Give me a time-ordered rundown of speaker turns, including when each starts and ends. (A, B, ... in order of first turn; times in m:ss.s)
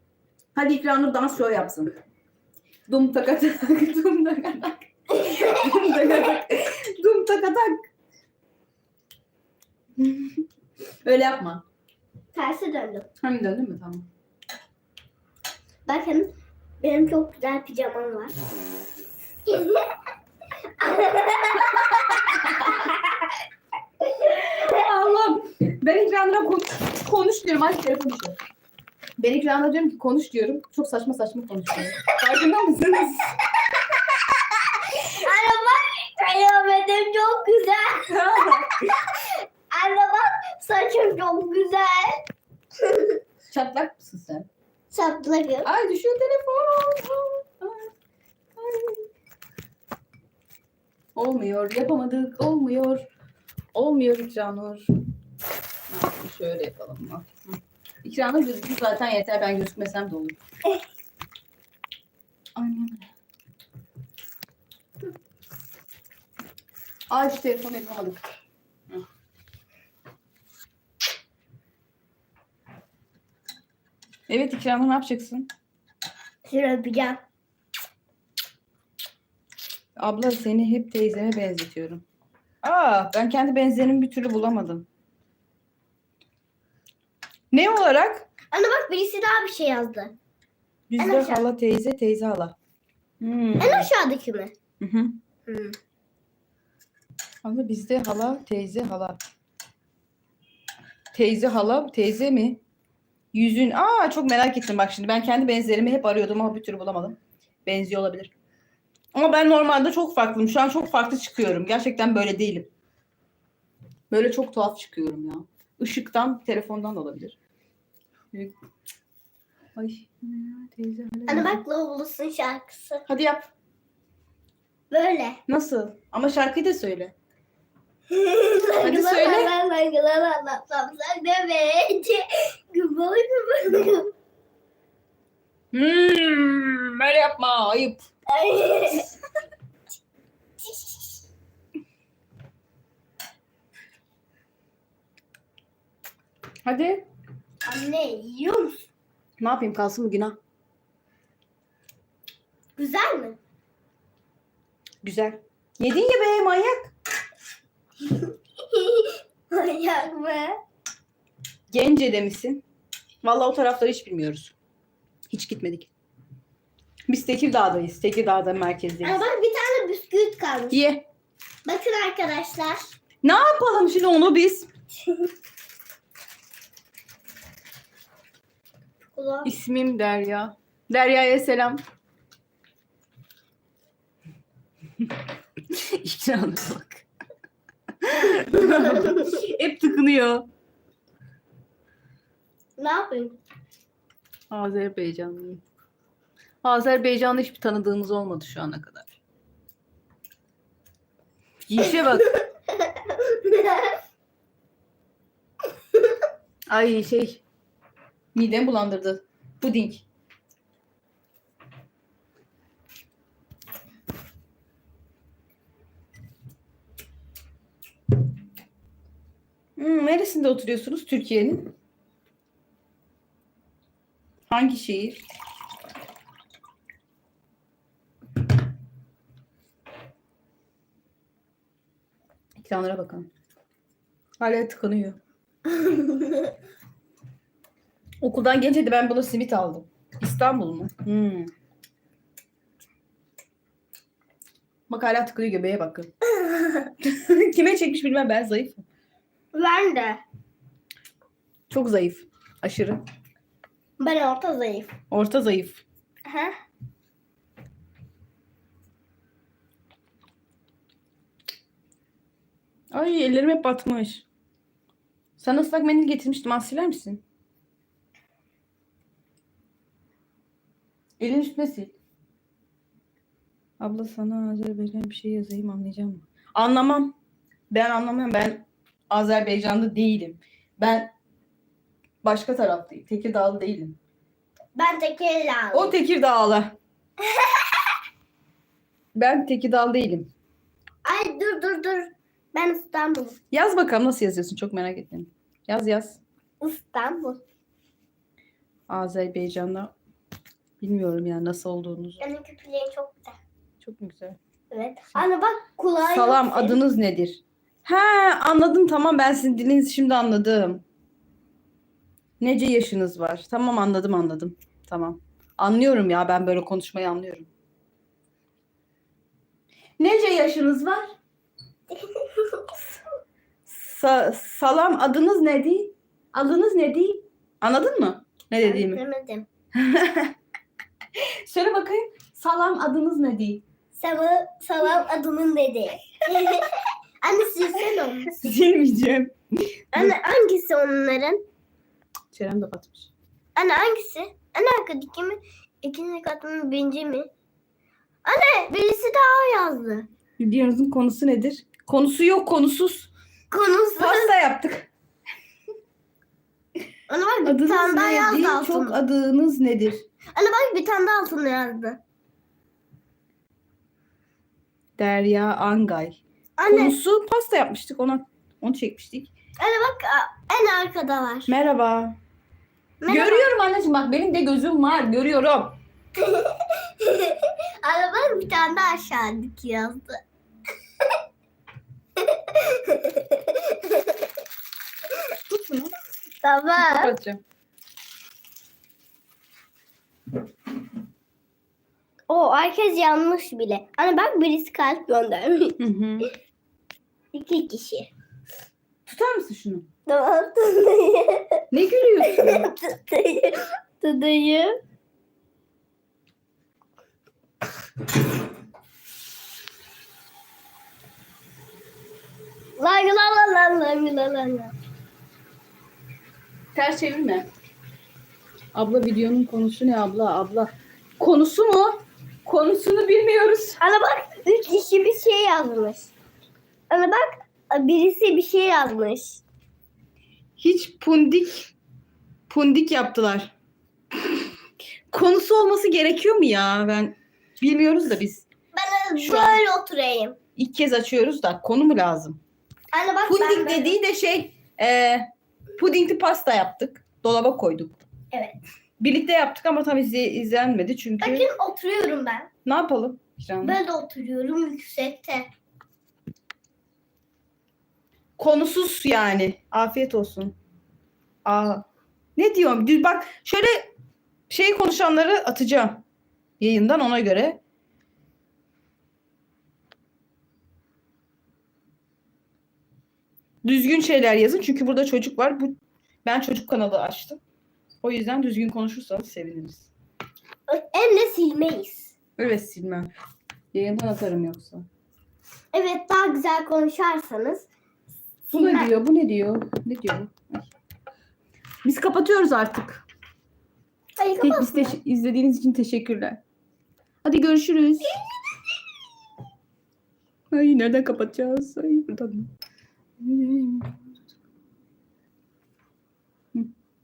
0:00.5-0:01.9 A
0:02.9-0:07.8 A
0:10.0-0:10.4 A
0:11.0-0:11.6 A
0:12.3-0:13.1 B
0:13.2-0:14.1 A
0:15.8-0:16.3 B
0:16.8-0:18.3 B
0:19.5-0:19.9 B
0:20.8-0:22.1 B
0:22.3-0:22.5 A
0:24.2-0:28.4 A
0:29.2-0:33.3 A
0:34.8-0:42.3 B
0:38.1-0:38.8 A
0:42.8-0:43.2 B
0:43.5-0:44.5 A
0:44.9-0:45.7 B
0:45.6-0:47.9 A
0:48.6-0:49.0 A
0:51.2-0:53.0 A
0:53.7-0:54.8 A
0:55.9-1:00.4 A
1:02.6-1:03.1 A
1:07.1-1:08.2 A
1:14.3-1:15.5 A
1:16.4-1:17.2 B
1:20.0-1:22.0 A
1:22.6-1:24.8 A
1:27.5-1:28.2 A
1:28.5-1:30.1 B
1:30.9-1:32.5 A
1:31.0-1:31.4 B
1:33.2-1:33.9 A
1:33.6-1:34.5 B
1:34.8-1:35.1 A
1:35.5-1:35.8 B
1:37.4-1:39.2 A
1:41.1-1:42.6 A
1:43.3-1:48.3 A
1:49.1-1:52.7 A
1:54.1-1:57.4 A
1:59.8-2:01.6 A
2:01.3-2:03.0 B
2:03.1-2:03.5 A
2:04.9-2:05.4 B
2:05.5-2:07.1 A
2:08.1-2:14.1 B
2:08.8-2:09.5 A
2:15.7-2:18.0 A
2:18.3-2:19.2 B
2:20.6-2:21.1 B
2:26.6-2:27.0 A
2:27.6-2:28.9 B
2:29.4-2:30.4 A
2:32.8-2:33.4 B
2:35.0-2:36.9 A
2:38.0-2:40.6 B
2:41.7-2:42.6 A
2:43.2-2:44.5 A
2:45.3-2:45.9 A
2:47.1-2:49.2 A
2:49.0-2:50.8 B
2:50.7-2:51.0 A
2:51.6-2:52.9 B
2:53.2-2:54.7 A
2:59.1-2:59.5 B
2:59.4-3:01.8 A
3:05.7-3:07.0 A
3:08.0-3:10.4 A
3:12.8-3:13.4 B
3:14.5-3:15.6 A
3:16.6-3:19.1 A
3:21.6-3:22.4 A
3:23.0-3:23.9 B
3:26.7-3:27.4 A
3:28.3-3:30.0 A
3:39.8-3:41.7 A
3:44.5-3:45.2 A
3:52.6-3:53.3 A
3:54.4-3:55.2 A
3:58.2-4:01.5 A
4:04.9-4:06.1 A
4:06.4-4:06.9 B
4:07.0-4:08.8 A
4:09.5-4:10.2 B
4:11.7-4:13.0 A
4:14.0-4:14.9 B
4:15.1-4:15.8 A
4:16.2-4:16.5 B
4:22.9-4:24.2 A
4:25.4-4:27.2 A
4:31.2-4:31.9 A
4:33.8-4:37.1 A
4:37.7-4:41.1 A
4:42.2-4:44.0 A
4:44.7-4:46.0 B
4:45.7-4:46.8 A
4:47.2-4:47.9 B
4:49.1-4:50.3 A
4:51.0-4:53.4 B
4:53.5-4:56.2 A
4:56.6-4:57.4 B
4:58.9-4:59.9 A
5:00.8-5:02.2 A
5:02.2-5:03.4 B
5:03.8-5:04.4 A
5:04.7-5:06.8 B
5:06.0-5:10.8 A
5:12.4-5:17.5 A
5:20.0-5:21.0 A
5:21.9-5:22.8 B
5:23.6-5:29.0 A
5:28.6-5:29.5 B
5:29.7-5:30.3 A
5:31.4-5:33.6 A
5:33.9-5:38.4 B
5:38.4-5:40.1 A
5:39.9-5:41.4 B
5:42.3-5:43.1 A
5:43.6-5:47.3 B
5:48.2-5:50.1 B
5:50.4-5:53.1 A
5:53.5-5:54.4 B
5:54.0-5:54.9 A
5:57.1-5:59.0 B
5:57.4-6:00.0 A
6:00.3-6:02.0 B
6:05.0-6:09.3 A
6:06.6-6:07.0 B
6:09.6-6:11.5 B
6:11.5-6:12.2 A
6:13.0-6:13.5 B
6:13.1-6:15.8 A
6:16.2-6:20.2 B
6:22.2-6:24.2 B
6:25.5-6:25.9 A
6:26.4-6:27.1 B
6:26.8-6:27.4 A
6:32.3-6:35.8 B
6:35.8-6:36.3 A
6:37.3-6:38.1 B
6:39.0-6:39.9 A
6:40.0-6:41.6 B
6:41.7-6:42.7 A
6:42.2-6:44.8 B
6:52.8-6:54.7 B
6:56.7-6:57.5 A
6:58.7-7:03.8 A
7:03.8-7:06.1 B
7:06.9-7:09.4 B
7:10.6-7:11.7 A
7:12.5-7:13.5 A
7:15.1-7:18.4 A
7:18.7-7:20.4 B
7:19.2-7:19.6 A
7:20.6-7:22.4 A
7:22.9-7:24.0 B
7:23.3-7:25.2 A
7:25.8-7:28.0 A
7:28.3-7:28.6 B
7:29.0-7:31.4 A
7:31.2-7:32.5 B
7:32.6-7:33.8 A
7:33.6-7:35.5 B
7:38.4-7:40.5 A
7:41.4-7:41.8 A
7:42.4-7:43.9 A
7:44.5-7:46.0 A
7:46.6-7:47.6 A
7:53.6-7:55.7 A
7:56.2-7:57.4 A
7:58.0-7:59.9 A
8:00.7-8:02.1 B
8:02.4-8:03.1 A
8:03.7-8:04.8 A
8:05.7-8:07.7 B
8:08.5-8:08.9 B
8:08.5-8:10.6 A
8:11.8-8:13.0 A
8:14.2-8:15.0 B
8:14.4-8:16.4 A
8:17.2-8:18.2 A
8:20.5-8:22.5 A
8:23.2-8:24.0 A